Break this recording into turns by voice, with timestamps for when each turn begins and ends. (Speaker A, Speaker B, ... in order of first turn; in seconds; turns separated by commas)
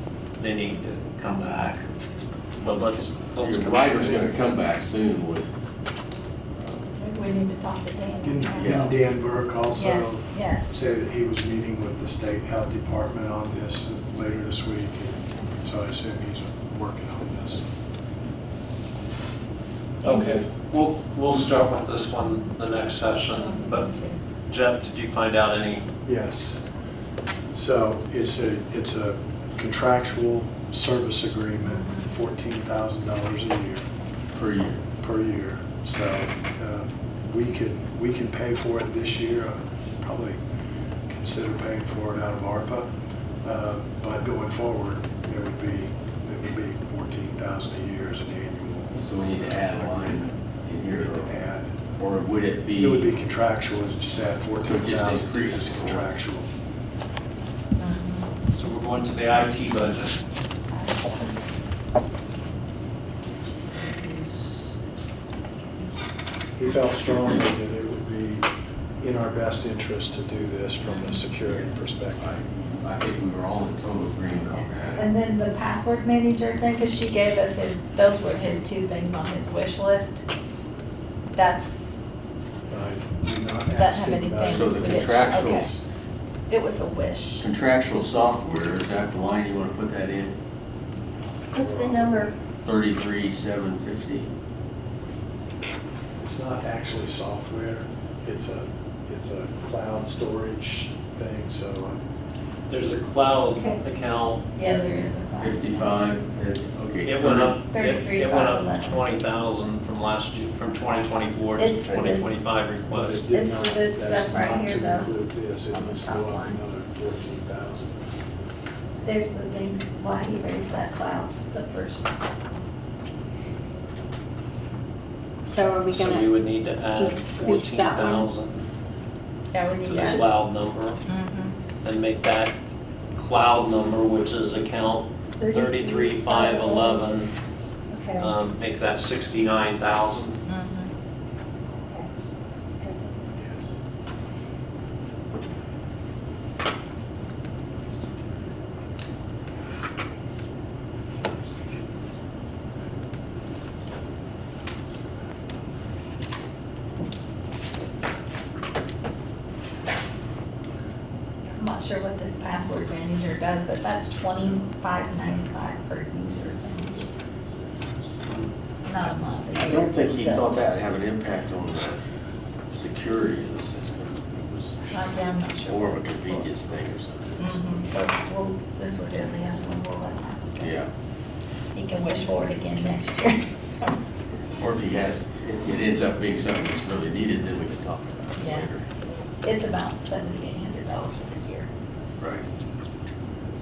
Speaker A: 0.4-1.8, Speaker A: 2.6-4.3, Speaker B: 3.4-5.6, Speaker C: 7.0-8.9, Speaker D: 8.2-17.7, Speaker B: 8.6-8.9, Speaker C: 9.7-10.8, Speaker C: 20.0-20.5, Speaker A: 20.0-23.9, Speaker C: 23.3-24.2, Speaker A: 24.5-25.9, Speaker D: 26.1-26.6, Speaker D: 27.5-33.8, Speaker C: 31.6-32.1, Speaker B: 34.3-34.9, Speaker D: 35.0-40.4, Speaker D: 41.1-42.9, Speaker D: 43.4-50.3, Speaker B: 49.0-51.4, Speaker D: 50.9-51.9, Speaker B: 52.0-53.1, Speaker D: 52.8-56.5, Speaker B: 54.6-56.1, Speaker C: 57.8-58.3, Speaker A: 58.5-60.2, Speaker C: 60.7-61.3, Speaker D: 66.6-68.5, Speaker D: 69.0-72.3, Speaker C: 70.8-71.2, Speaker B: 71.5-75.1, Speaker C: 74.9-80.2, Speaker C: 81.3-81.7, Speaker D: 82.7-85.8, Speaker C: 83.7-85.7, Speaker B: 84.5-85.7, Speaker C: 86.5-87.5, Speaker B: 87.4-90.4, Speaker D: 91.5-92.4, Speaker E: 91.5-92.3, Speaker B: 92.6-94.3, Speaker D: 96.2-102.0, Speaker A: 102.7-104.4, Speaker C: 104.5-106.1, Speaker B: 105.4-107.5, Speaker A: 107.0-113.2, Speaker C: 107.7-109.0, Speaker C: 111.6-112.4, Speaker D: 112.9-118.1, Speaker C: 113.3-115.1, Speaker C: 115.7-116.6, Speaker C: 119.0-122.1, Speaker E: 125.5-126.2, Speaker C: 125.5-126.0, Speaker A: 125.8-128.7, Speaker C: 127.0-128.2, Speaker E: 127.4-127.9, Speaker C: 129.5-130.3, Speaker A: 129.8-131.0, Speaker C: 131.1-131.5, Speaker A: 131.8-132.6, Speaker A: 133.2-137.3, Speaker C: 135.4-137.2, Speaker E: 137.9-138.3, Speaker A: 138.2-140.4, Speaker C: 140.4-140.9, Speaker E: 142.8-143.1, Speaker D: 143.4-143.7, Speaker C: 161.5-167.1, Speaker C: 168.8-170.5, Speaker B: 169.5-172.0, Speaker B: 172.7-174.9, Speaker C: 174.9-176.5, Speaker B: 175.6-177.8, Speaker C: 177.4-180.8, Speaker B: 180.6-180.9, Speaker C: 181.7-183.9, Speaker B: 184.6-188.8, Speaker C: 188.3-188.7, Speaker C: 189.4-191.7, Speaker B: 192.2-192.4